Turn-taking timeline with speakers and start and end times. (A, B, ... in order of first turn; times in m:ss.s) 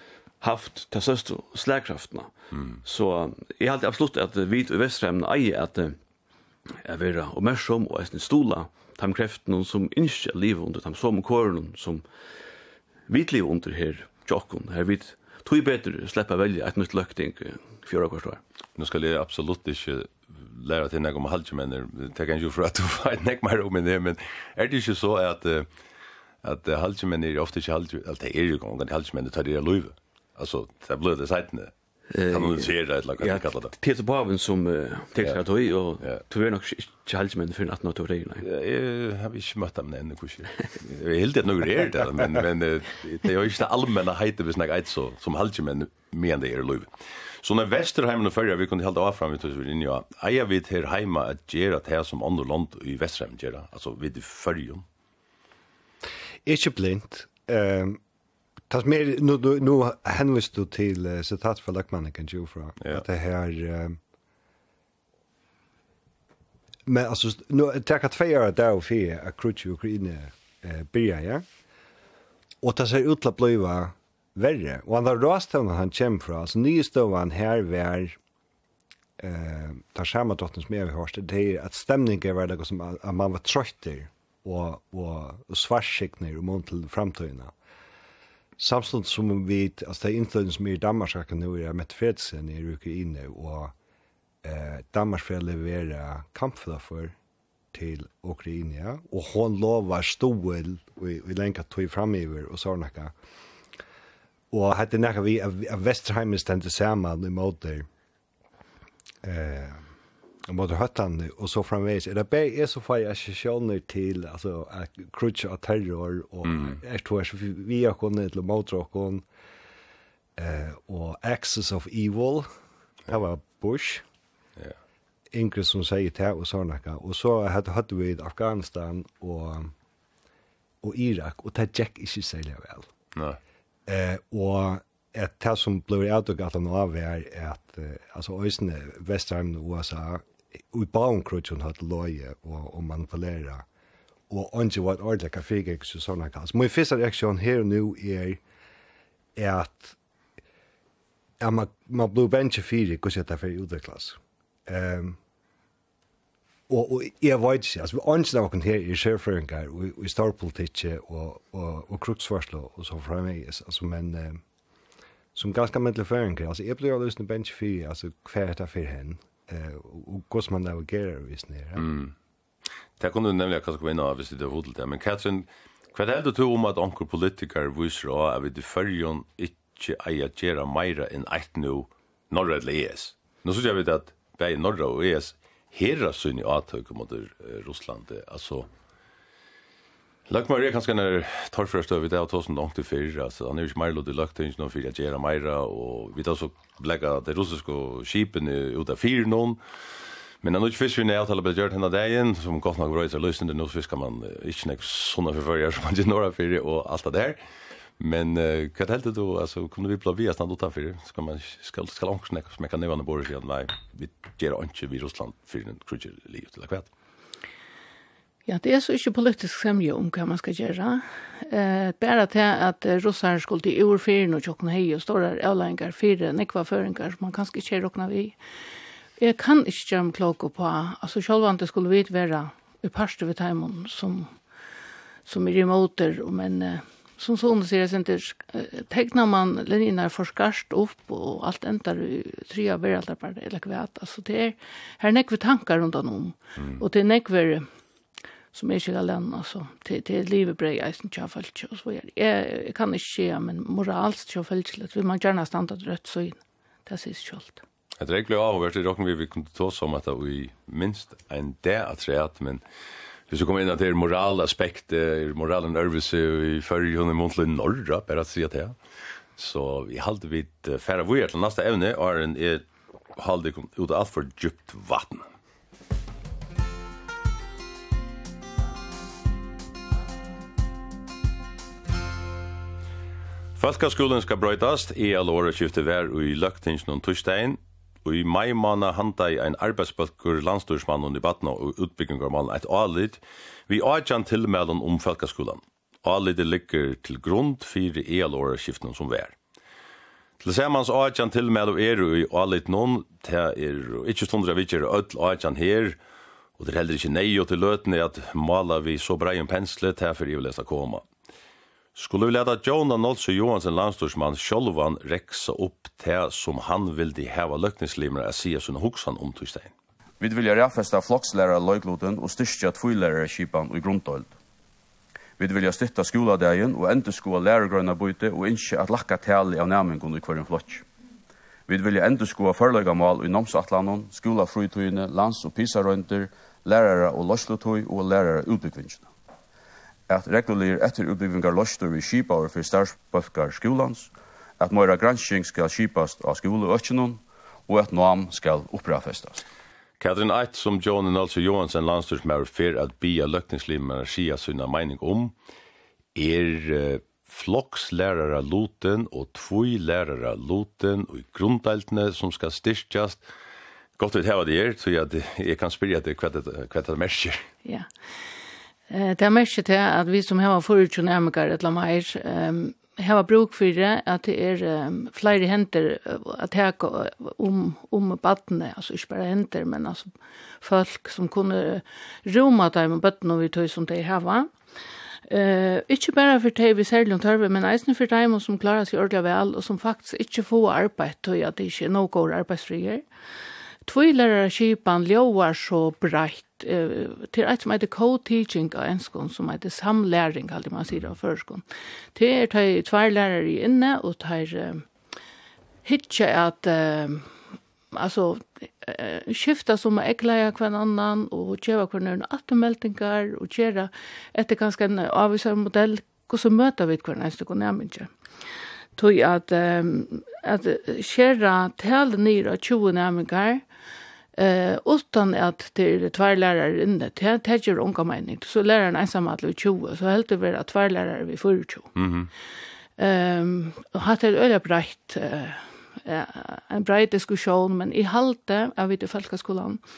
0:00.4-0:02.3 A
0:02.5-0:02.8 B
0:02.8-0:05.9 A
0:06.8-0:12.0 A
0:13.1-0:18.4 A
0:18.8-0:25.7 B
0:26.4-0:31.7 B
0:32.1-0:38.4 A
0:32.3-0:33.7 B
0:38.4-0:46.9 B
0:47.4-0:54.8 B
0:56.4-0:58.0 C
0:58.7-1:04.0 C
1:06.9-1:11.4 C
1:12.6-1:18.2 C
1:19.2-1:27.5 C
1:28.6-1:33.7 C
1:34.4-1:37.1 C
1:37.7-1:43.1 C
1:44.5-1:47.9 C
1:49.2-1:49.8 C
1:50.5-1:59.2 C
1:56.4-1:56.8 B
2:00.4-2:02.5 C
2:03.1-2:04.0 C
2:05.3-2:09.7 C
2:10.8-2:12.9 C
2:13.9-2:23.6 C
2:24.3-2:28.4 C
2:29.4-2:30.0 C
2:31.4-2:35.2 C
2:36.7-2:44.4 C
2:45.3-2:51.8 C
2:51.8-2:52.1 B
2:53.0-3:08.7 B
3:10.3-3:19.6 B
3:20.4-3:27.4 B
3:28.0-3:36.9 B
3:38.5-3:48.4 D
3:49.2-3:54.3 D
3:55.2-4:07.7 D
4:08.5-4:17.6 D
4:18.0-4:22.6 B
4:23.3-4:28.8 B
4:29.4-4:32.6 B
4:33.2-4:35.2 B
4:43.6-4:59.3 B
5:00.4-5:06.0 B
5:06.6-5:11.0 B
5:12.0-5:19.7 B
5:20.2-5:24.3 E
5:25.4-5:30.8 E
5:31.7-5:39.1 E
5:40.1-5:49.4 E
5:50.0-5:55.3 B
5:56.2-6:03.2 B
6:04.0-6:07.4 B
6:08.9-6:20.1 D
6:20.6-6:24.5 D
6:25.3-6:33.0 D
6:33.8-6:41.6 D
6:42.1-6:44.8 D
6:45.8-6:47.3 D
6:47.9-6:58.1 D
6:59.0-7:03.6 D
7:04.4-7:12.0 D
7:12.0-7:12.3 B
7:13.0-7:19.8 D